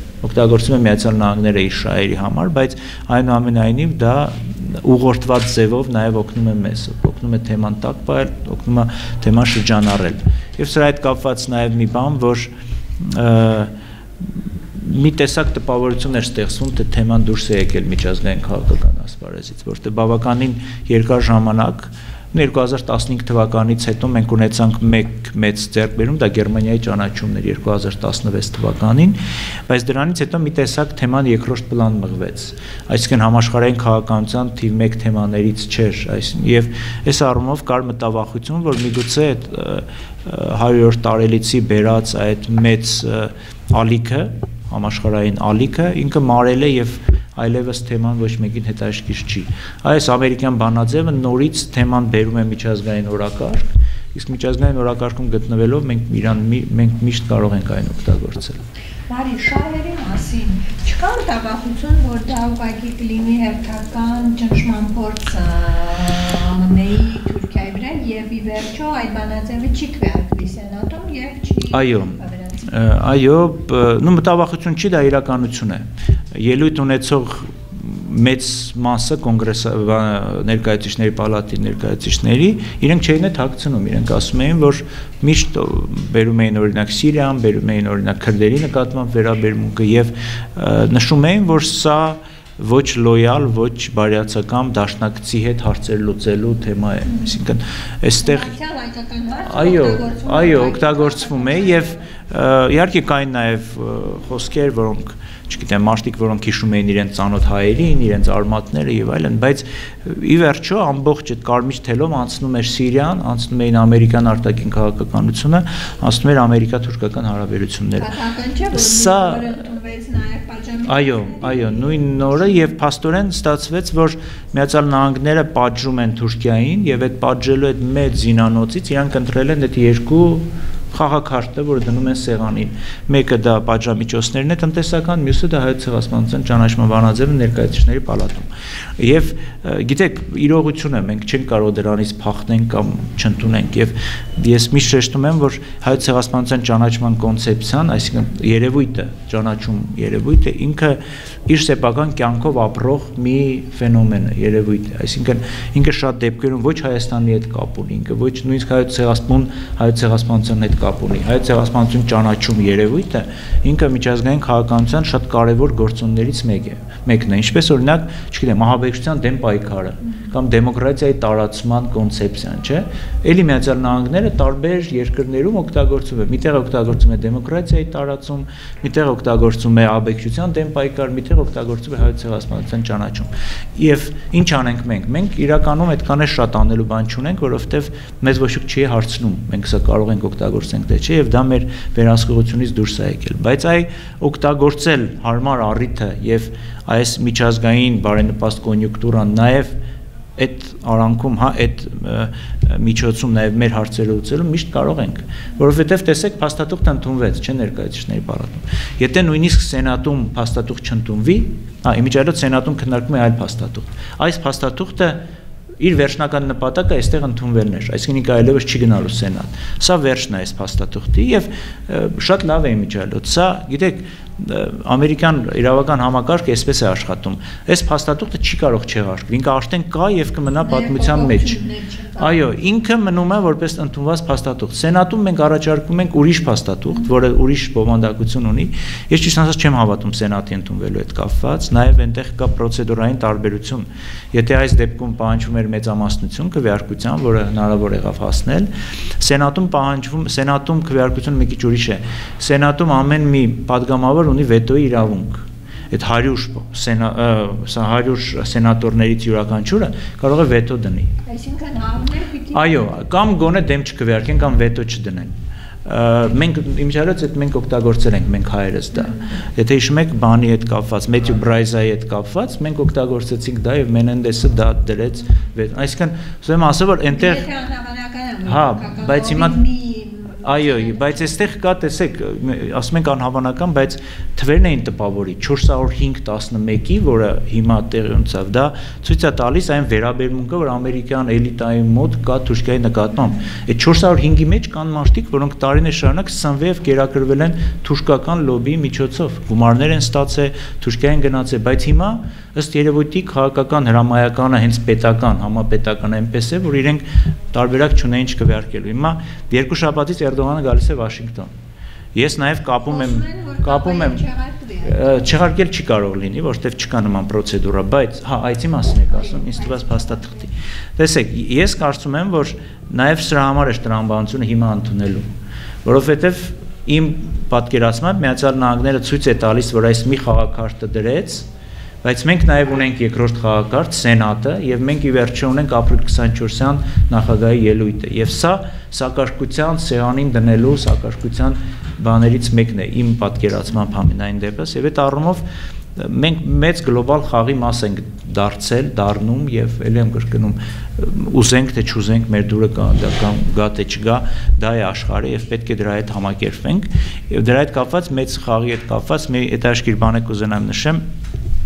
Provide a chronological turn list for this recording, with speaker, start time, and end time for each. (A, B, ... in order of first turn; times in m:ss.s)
0:00.2-0:58.6 A
0:59.1-1:12.7 B
1:11.7-1:38.5 A
1:38.2-1:42.0 B
1:39.4-1:58.1 A
1:58.0-2:02.7 B
1:58.7-1:59.6 A
2:00.9-3:19.8 A
3:20.4-3:35.2 A
3:35.8-3:51.6 A
3:50.6-3:52.4 B
3:52.2-4:21.1 A
4:21.2-4:22.8 B
4:22.5-4:37.4 A
4:29.0-4:29.3 B
4:37.1-4:41.2 B
4:38.4-4:39.6 A
4:40.4-5:11.5 A
5:12.1-5:14.2 A
5:12.8-5:15.3 B
5:14.8-5:25.3 A
5:19.1-5:20.5 B
5:25.8-5:31.5 A
5:32.0-6:01.0 A